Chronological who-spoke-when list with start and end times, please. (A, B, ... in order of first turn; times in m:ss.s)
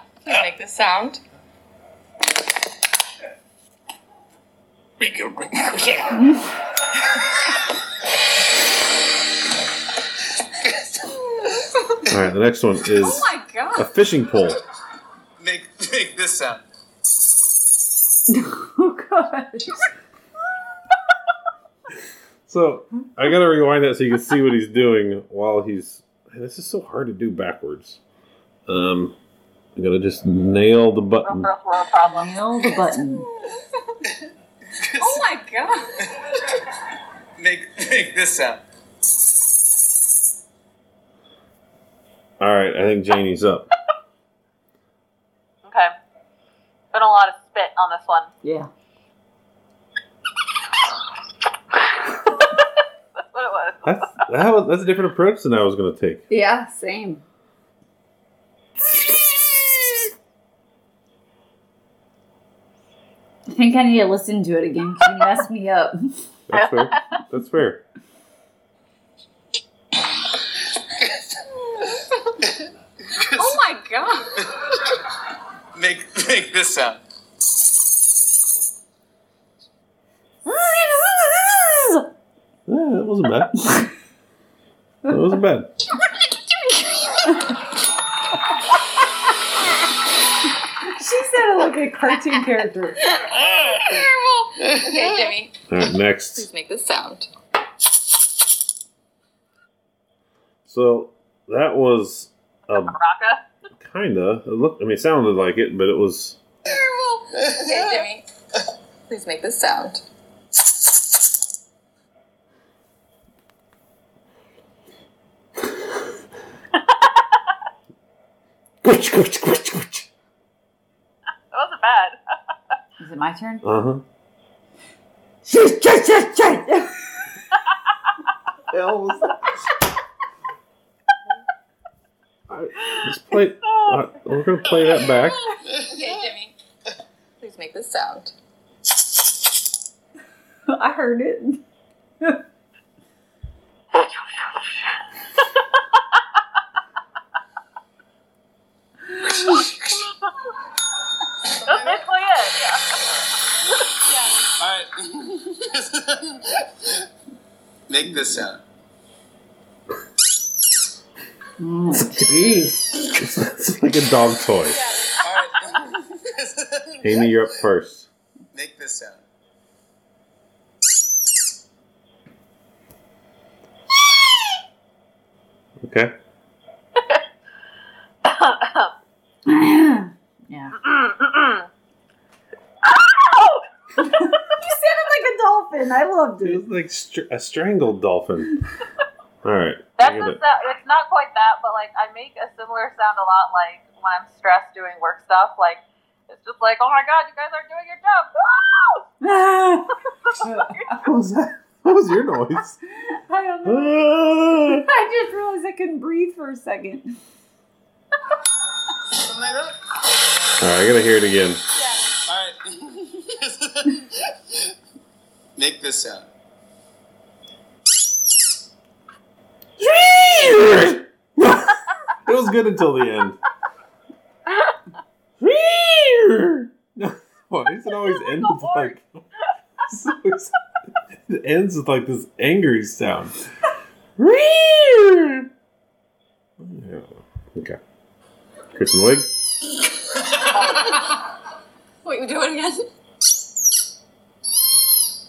0:00.2-0:01.2 A
0:05.0-0:06.1 B
0:06.1-0:06.4 C
0:10.7-0:11.0 B
0:12.1-0:14.6 D
0:13.0-0:13.8 A
0:15.4-0:16.6 B
0:18.3-0:19.9 C
0:22.5-0:28.0 D
0:28.7-0:29.2 D
0:29.8-0:31.5 D
0:31.2-0:32.3 E
0:32.0-0:33.3 C
0:32.7-0:33.6 A
0:34.8-0:35.4 B
0:35.0-0:36.0 A
0:37.4-0:38.6 B
0:42.4-0:43.7 D
0:45.6-0:45.9 E
0:46.9-0:48.3 E
0:48.4-0:48.7 C
0:53.3-0:53.9 E
0:53.8-0:56.2 D
0:56.3-0:57.2 C
1:03.5-1:06.1 C
1:06.5-1:07.8 D
1:06.5-1:07.0 E
1:13.0-1:13.6 B
1:13.3-1:14.4 A
1:14.4-1:14.7 B
1:15.7-1:17.0 B
1:20.4-1:22.1 C
1:22.7-1:23.8 D
1:25.1-1:25.7 D
1:30.8-1:33.0 C
1:33.1-1:35.6 A
1:33.4-1:34.1 B
1:34.6-1:35.3 B
1:35.7-1:36.5 D
1:36.4-1:37.3 A
1:40.6-1:43.0 D
1:42.7-1:43.4 E
1:43.8-1:46.4 D
1:46.6-1:48.2 A
1:47.3-1:48.1 B
1:49.1-1:50.0 A
1:58.8-2:00.1 D
2:01.5-2:02.2 E
2:03.0-2:03.6 C
2:03.6-2:04.0 D
2:05.4-2:07.1 C
2:08.7-2:09.4 D
2:12.5-2:15.4 D
2:13.6-2:14.0 E
2:15.5-2:16.6 A
2:15.6-2:16.3 B
2:17.4-2:18.3 A
2:20.7-2:21.6 C
2:23.9-2:24.8 E
2:29.2-2:29.6 C
2:31.5-2:32.0 B
2:31.6-2:32.8 E
2:34.1-2:34.4 A
2:34.6-2:37.1 B
2:37.9-2:38.6 B
2:41.6-2:42.8 C
2:41.9-2:42.4 D
2:42.9-2:44.8 D
2:44.7-2:45.2 A
2:45.2-2:47.4 B
2:47.0-2:48.1 D
2:48.5-2:49.2 B
2:55.8-2:56.1 D
2:57.0-2:57.2 E
2:58.2-2:58.9 E
2:59.4-3:00.8 C
3:00.8-3:01.7 E
3:02.8-3:03.6 E
3:04.0-3:06.6 C
3:06.4-3:08.6 D
3:09.4-3:10.4 D
3:10.0-3:19.0 E
3:19.2-3:21.0 C
3:20.3-3:20.8 E
3:21.0-3:22.8 D
3:23.0-3:24.0 C
3:23.6-3:24.9 D
3:24.7-3:27.1 C
3:29.1-3:29.9 B
3:30.6-3:31.6 D
3:32.2-3:34.7 B
3:35.6-3:36.3 B
3:39.8-3:43.4 D
3:45.4-3:49.2 D
3:48.4-3:48.9 E
3:49.8-3:50.5 D
3:51.1-3:53.4 D
3:54.2-3:55.5 D
3:56.6-3:57.8 D
3:58.7-3:59.3 D
4:02.0-4:02.9 A